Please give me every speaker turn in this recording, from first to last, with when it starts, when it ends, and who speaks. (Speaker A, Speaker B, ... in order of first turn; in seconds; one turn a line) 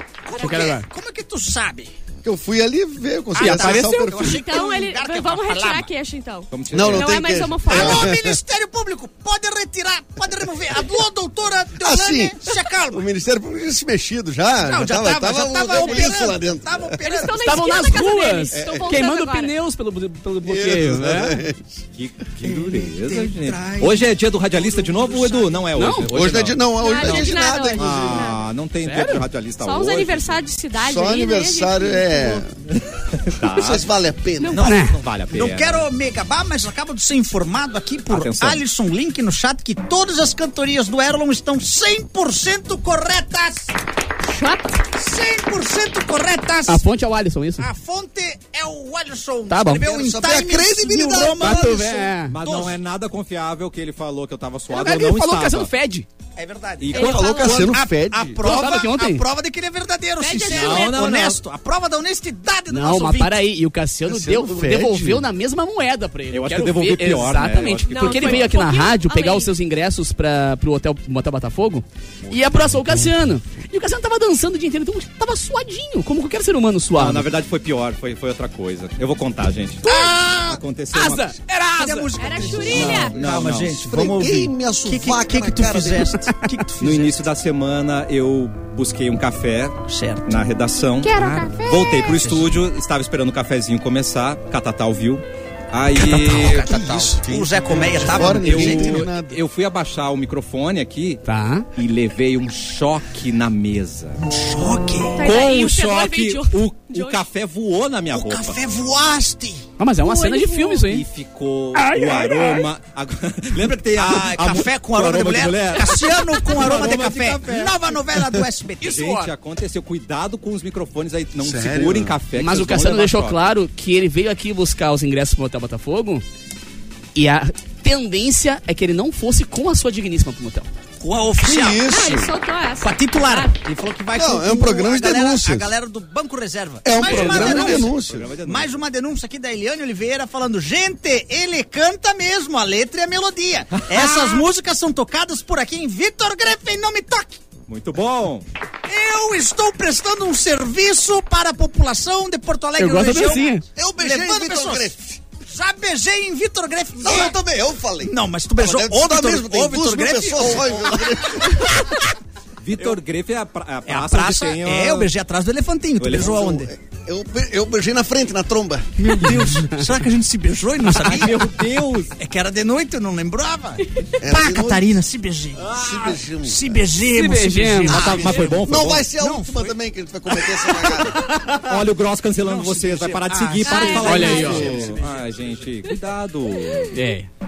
Speaker A: 0.3-1.9
Speaker B: 0.4-0.9
Speaker C: 2.2-4.5
Speaker A: 3.4-5.9
Speaker B: 3.4-3.9
Speaker D: 3.6-8.2
Speaker E: 6.5-7.5
Speaker C: 6.7-8.4
Speaker A: 7.7-13.1
Speaker C: 11.8-17.1
Speaker A: 14.6-17.8
Speaker D: 15.7-16.1
Speaker D: 17.0-19.5
Speaker B: 17.3-21.4
Speaker C: 18.5-18.9
Speaker C: 20.4-21.8
Speaker E: 22.0-30.4
Speaker A: 22.5-25.6
Speaker B: 25.8-26.1
Speaker C: 26.1-28.3
Speaker D: 26.8-28.5
Speaker B: 28.8-29.2
Speaker D: 29.6-32.4
Speaker C: 30.8-32.5
Speaker E: 32.8-33.9
Speaker C: 33.4-34.6
Speaker D: 34.4-34.7
Speaker E: 34.5-35.9
Speaker A: 34.5-43.7
Speaker B: 34.6-35.0
Speaker E: 38.1-38.6
Speaker D: 44.2-44.8
Speaker A: 44.9-46.8
Speaker B: 46.7-47.7
Speaker A: 47.6-52.8
Speaker B: 49.5-49.9
Speaker C: 49.8-52.1
Speaker B: 51.4-52.4
Speaker E: 52.3-55.7
Speaker B: 54.7-56.1
Speaker A: 56.4-63.4
Speaker E: 56.8-57.7
Speaker D: 56.9-57.7
Speaker C: 57.0-58.6
Speaker B: 58.4-59.2
Speaker D: 60.2-61.0
Speaker E: 60.5-61.4
Speaker B: 62.7-77.3
Speaker C: 64.0-65.3
Speaker E: 66.3-68.5
Speaker D: 67.9-69.5
Speaker E: 72.2-73.1
Speaker E: 77.0-81.4
Speaker B: 79.8-83.1
Speaker A: 81.8-87.3
Speaker D: 82.2-83.2
Speaker E: 82.7-84.5
Speaker C: 83.9-86.2
Speaker E: 86.8-97.1
Speaker A: 89.9-90.5
Speaker B: 91.0-91.9
Speaker A: 92.0-92.5
Speaker A: 96.0-99.1
Speaker C: 96.7-99.4
Speaker E: 97.8-101.2
Speaker B: 101.2-101.7
Speaker E: 101.8-104.2
Speaker A: 104.2-105.3
Speaker D: 105.2-107.2
Speaker E: 105.2-108.6
Speaker A: 108.1-109.7
Speaker B: 109.8-111.0
Speaker D: 110.0-110.9
Speaker E: 110.9-118.3
Speaker B: 111.8-112.6
Speaker A: 113.9-119.0
Speaker B: 118.8-119.3
Speaker E: 118.8-123.5
Speaker C: 121.4-122.2
Speaker B: 122.3-126.2
Speaker B: 127.2-130.7
Speaker A: 131.0-132.1
Speaker C: 131.4-132.3
Speaker D: 131.9-133.6
Speaker A: 132.8-147.4
Speaker C: 134.1-135.7
Speaker C: 136.8-138.3
Speaker B: 137.0-137.8
Speaker E: 137.0-138.8
Speaker E: 144.0-144.3
Speaker E: 147.7-148.5
Speaker A: 148.8-154.9
Speaker B: 152.8-153.6
Speaker C: 153.8-155.2
Speaker A: 155.5-157.4
Speaker C: 157.0-162.0
Speaker A: 158.0-161.7
Speaker E: 162.6-165.1
Speaker A: 163.9-166.7
Speaker E: 166.0-166.5
Speaker C: 166.1-169.1
Speaker A: 169.0-171.5
Speaker E: 170.9-172.2
Speaker A: 172.2-175.7
Speaker C: 174.2-174.9
Speaker E: 175.6-176.2
Speaker C: 175.7-176.8
Speaker A: 176.4-179.8
Speaker B: 177.1-178.3
Speaker E: 177.9-179.1
Speaker C: 178.0-181.3
Speaker A: 180.3-181.8
Speaker E: 181.6-187.0
Speaker A: 182.4-185.6
Speaker D: 183.7-184.9
Speaker B: 183.7-184.9
Speaker B: 186.9-187.3